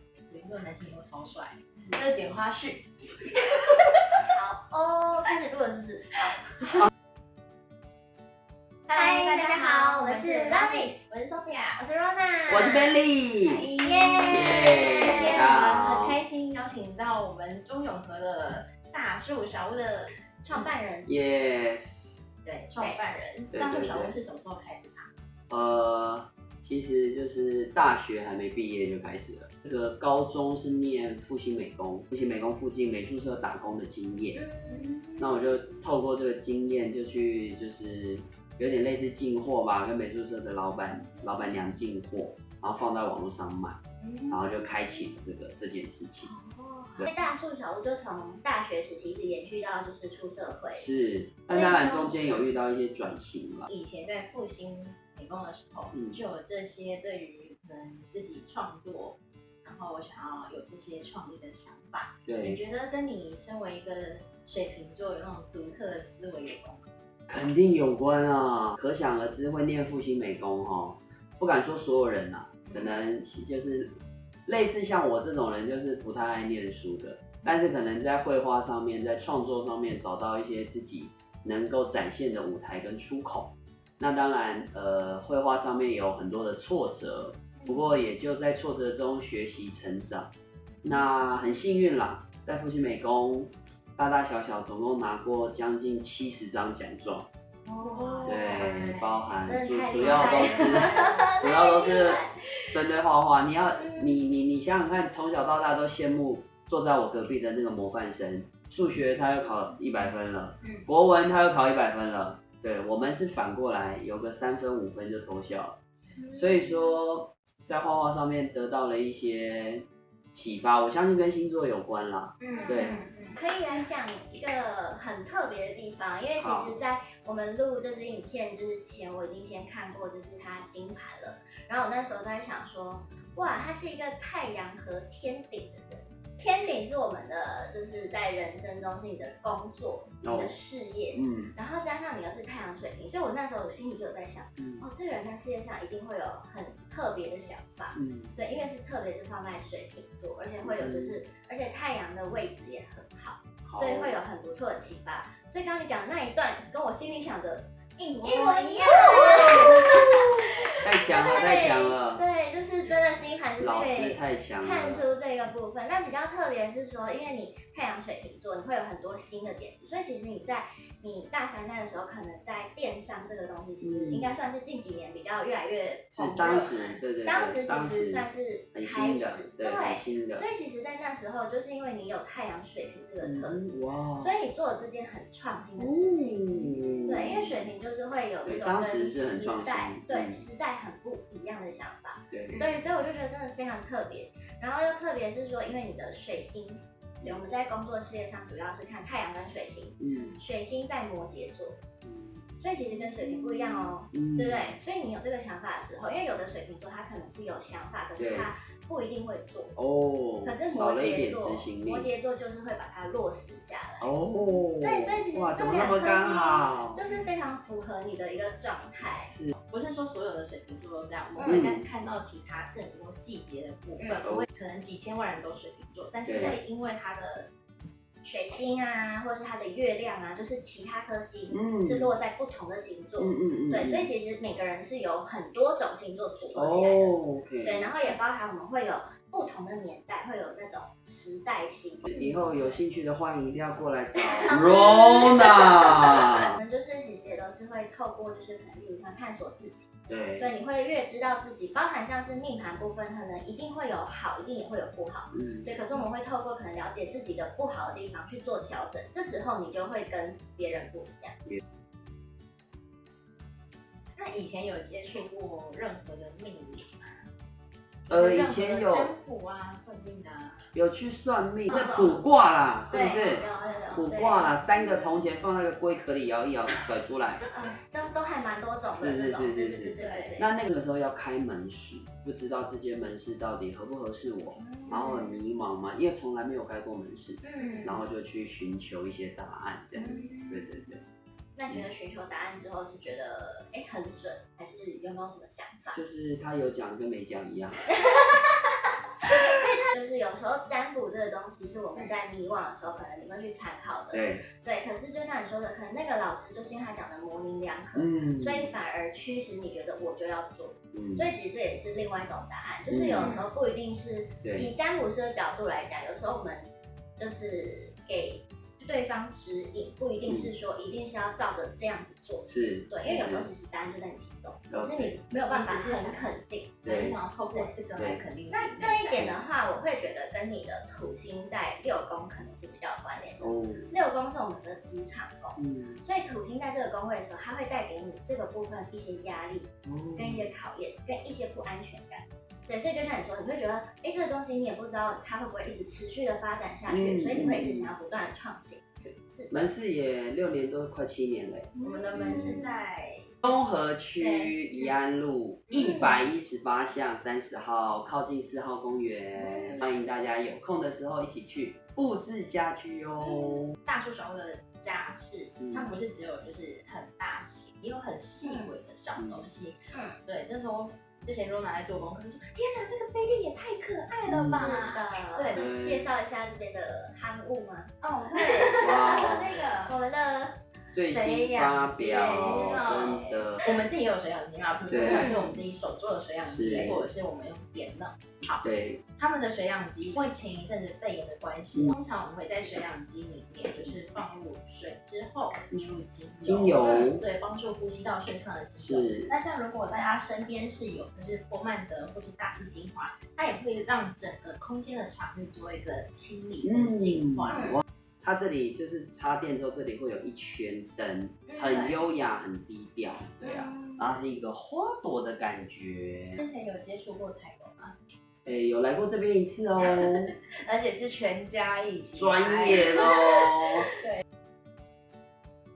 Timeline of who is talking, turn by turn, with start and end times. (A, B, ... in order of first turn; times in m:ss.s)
0:00.2-0:04.2 A
0:04.3-0:06.2 B
0:08.9-0:11.8 A
0:08.9-0:11.0 B
0:11.8-0:13.0 B
0:12.5-0:13.7 C
0:13.4-0:20.7 A
0:13.8-0:15.5 B
0:14.3-0:16.2 C
0:20.4-0:21.1 B
0:21.1-0:22.2 C
0:22.4-0:25.1 A
0:22.8-0:23.0 B
0:23.5-0:24.2 C
0:25.5-0:34.4 C
0:34.3-0:35.7 B
0:34.7-0:35.3 A
0:35.2-0:43.8 C
0:44.0-0:44.4 A
0:44.3-0:46.3 C
0:46.2-0:50.9 B
0:50.8-0:53.7 C
0:51.5-0:52.5 B
0:53.7-1:06.9 A
0:55.9-0:56.2 C
1:02.3-1:02.6 C
1:07.3-1:30.3 C
1:12.7-1:13.0 A
1:27.6-1:28.0 A
1:30.8-1:37.3 C
1:37.7-1:39.3 A
1:37.8-1:38.6 B
1:38.2-1:55.8 C
1:39.4-1:42.7 B
1:39.9-1:41.3 A
1:50.6-1:50.9 A
1:56.2-1:56.9 B
1:56.3-2:03.0 C
2:02.4-2:03.4 A
2:02.5-2:37.7 B
2:06.4-2:06.8 C
2:20.2-2:20.6 C
2:21.1-2:21.5 C
2:24.6-2:24.9 C
2:27.9-2:28.4 C
2:30.6-2:31.2 C
2:33.6-2:34.2 C
2:38.0-2:40.3 A
2:38.2-3:21.8 B
2:40.8-2:42.2 C
2:43.6-2:45.1 C
2:53.8-2:54.4 C
2:56.1-3:00.5 C
3:03.2-3:04.3 C
3:05.8-3:07.6 C
3:08.4-3:10.5 C
3:12.3-3:12.7 C
3:20.0-3:20.4 C
3:22.0-3:22.5 C
3:22.6-3:29.8 B
3:22.9-3:23.9 A
3:24.1-3:24.7 C
3:28.2-3:28.5 C
3:29.8-3:32.1 C
3:30.4-3:34.1 B
3:34.0-3:37.0 C
3:34.8-3:39.3 B
3:39.3-3:39.5 C
3:39.6-3:47.5 A
3:41.4-3:41.7 B
3:41.4-3:41.8 C
3:44.0-3:44.3 B
3:46.2-3:46.6 C
3:48.2-4:02.8 B
3:51.5-3:52.1 C
3:53.2-3:54.1 C
3:56.5-3:57.9 C
4:02.0-4:06.4 C
4:02.1-4:02.4 A
4:04.1-4:21.4 B
4:10.1-4:10.5 C
4:15.3-4:15.8 C
4:24.2-4:27.3 A
4:28.1-4:30.7 A
4:28.1-4:29.1 C
4:30.7-4:37.4 C
4:31.7-4:32.2 B
4:32.9-4:35.2 B
4:37.5-4:40.5 B
4:38.9-4:51.0 C
4:40.0-4:40.3 A
4:44.6-4:45.3 B
4:44.9-4:45.1 A
4:47.4-4:47.9 B
4:47.6-4:48.0 A
4:50.0-4:50.3 B
4:50.0-4:50.9 A
4:51.6-4:56.0 B
4:55.9-4:57.9 C
4:57.9-5:26.9 B
5:04.1-5:04.4 C
5:07.9-5:08.7 C
5:10.9-5:11.3 C
5:12.9-5:13.4 C
5:13.2-5:13.5 A
5:14.4-5:14.7 C
5:20.2-5:20.5 C
5:22.4-5:23.5 C
5:24.7-5:25.2 C
5:25.4-5:26.3 A
5:26.8-5:27.2 C
5:26.8-5:29.3 A
5:27.9-5:28.2 C
5:28.5-5:49.7 B
5:33.4-5:34.0 C
5:35.6-5:36.0 C
5:39.8-5:40.5 C
5:46.9-5:47.9 C
5:49.5-5:52.7 C
5:51.7-5:52.7 B
5:51.8-5:53.4 A
5:53.4-6:03.7 C
5:54.2-5:54.9 A
5:55.7-5:56.2 A
5:55.8-5:56.1 B
5:59.5-5:59.9 A
6:03.2-6:15.7 A
6:05.6-6:06.0 C
6:08.4-6:08.7 B
6:09.2-6:09.4 C
6:09.9-6:10.2 B
6:14.3-6:14.7 C
6:14.5-6:20.6 B
6:15.5-6:16.1 C
6:18.0-6:20.0 A
6:18.8-6:19.4 C
6:20.9-6:23.7 C
6:21.0-6:47.7 A
6:22.0-6:23.4 B
6:24.9-6:25.3 C
6:25.0-6:25.6 B
6:26.4-6:27.0 C
6:28.6-6:29.0 C
6:36.4-6:37.2 C
6:36.8-6:37.1 B
6:38.8-6:39.3 C
6:46.6-6:56.4 C
6:47.5-6:47.8 B
6:51.5-6:52.0 A
6:53.4-6:54.0 B
6:56.4-6:58.0 A
6:58.4-7:00.3 C
6:59.8-7:03.4 A
7:02.2-7:03.9 C
7:03.9-7:04.2 A